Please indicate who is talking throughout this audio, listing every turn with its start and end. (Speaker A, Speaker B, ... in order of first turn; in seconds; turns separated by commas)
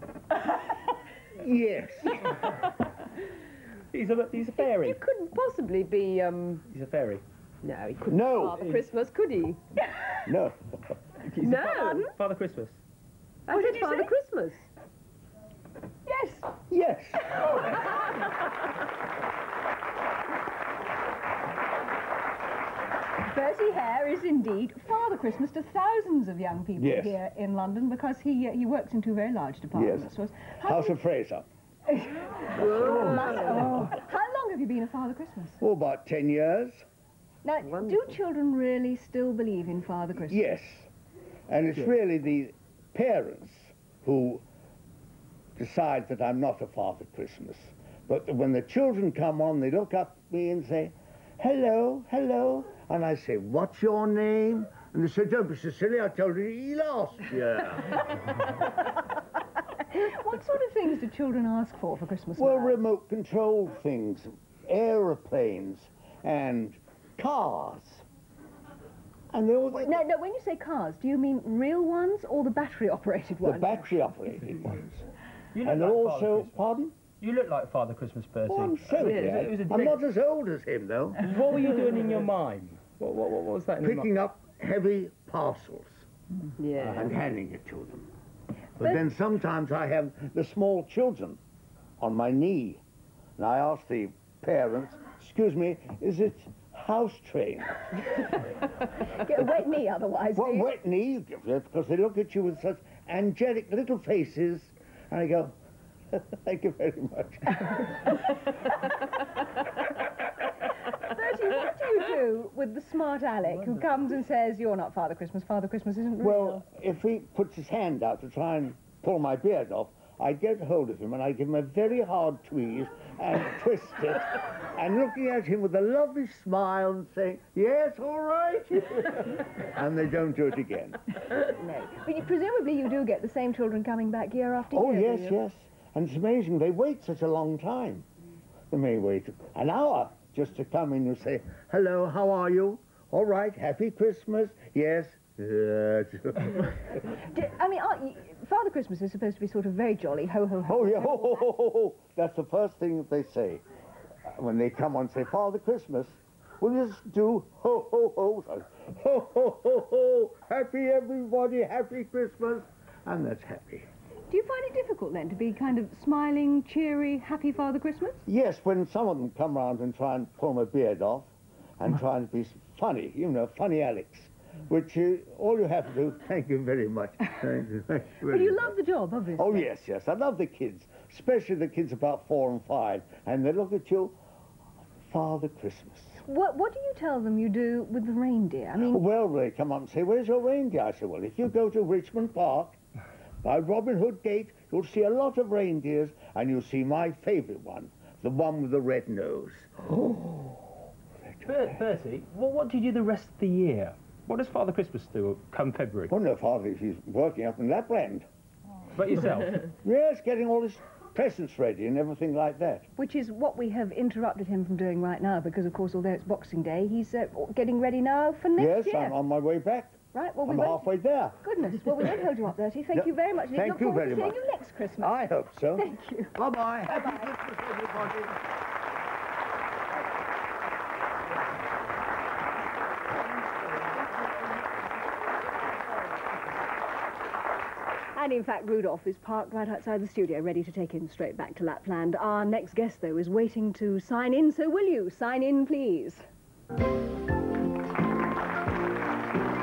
Speaker A: 1.3-2.2, Speaker B: 3.9-5.0, Speaker C: 4.5-6.6, Speaker B: 6.7-7.2, Speaker C: 7.6-9.6, Speaker A: 8.1-8.7, Speaker A: 10.2-10.9, Speaker B: 11.3-12.8, Speaker C: 11.4-12.1, Speaker C: 13.5-14.6, Speaker D: 13.5-14.1, Speaker D: 16.1-16.5, Speaker A: 16.7-17.7, Speaker D: 23.3-31.0, Speaker A: 26.8-27.2, Speaker A: 29.7-30.1, Speaker A: 30.6-31.4, Speaker D: 31.9-35.6, Speaker C: 32.5-33.9, Speaker A: 35.6-36.8, Speaker D: 37.4-40.5, Speaker C: 37.6-38.1, Speaker A: 40.3-40.9, Speaker A: 41.5-44.4, Speaker A: 45.6-58.0, Speaker D: 59.9-62.8, Speaker A: 62.4-68.0, Speaker A: 69.3-70.0, Speaker D: 69.8-73.9, Speaker A: 73.4-75.0, Speaker B: 75.5-80.0, Speaker A: 75.6-76.9, Speaker A: 78.5-81.2, Speaker C: 79.0-79.5, Speaker B: 81.2-84.1, Speaker A: 83.8-86.0, Speaker C: 86.6-87.2, Speaker A: 86.8-88.1, Speaker A: 88.8-91.4, Speaker A: 92.0-92.8, Speaker A: 93.4-97.8, Speaker D: 99.0-100.7, Speaker A: 100.3-105.5, Speaker A: 106.1-107.9, Speaker D: 111.0-116.6, Speaker A: 116.2-131.0, Speaker D: 131.5-135.4, Speaker A: 134.7-138.1, Speaker A: 138.7-146.8, Speaker D: 147.3-151.5, Speaker A: 150.7-153.6, Speaker A: 154.3-163.9, Speaker D: 164.3-168.2, Speaker A: 168.3-178.7, Speaker D: 178.2-179.7, Speaker A: 179.4-184.2, Speaker A: 185.1-186.2, Speaker D: 186.2-189.0, Speaker A: 188.8-192.8, Speaker A: 193.4-200.6, Speaker A: 201.2-201.8, Speaker B: 201.4-206.1, Speaker A: 206.1-208.3, Speaker B: 208.9-209.7, Speaker A: 209.8-212.9, Speaker D: 213.0-219.2, Speaker A: 218.6-221.4, Speaker D: 220.1-225.2, Speaker A: 222.9-224.4, Speaker A: 225.0-228.4, Speaker D: 225.7-227.3, Speaker D: 238.1-246.2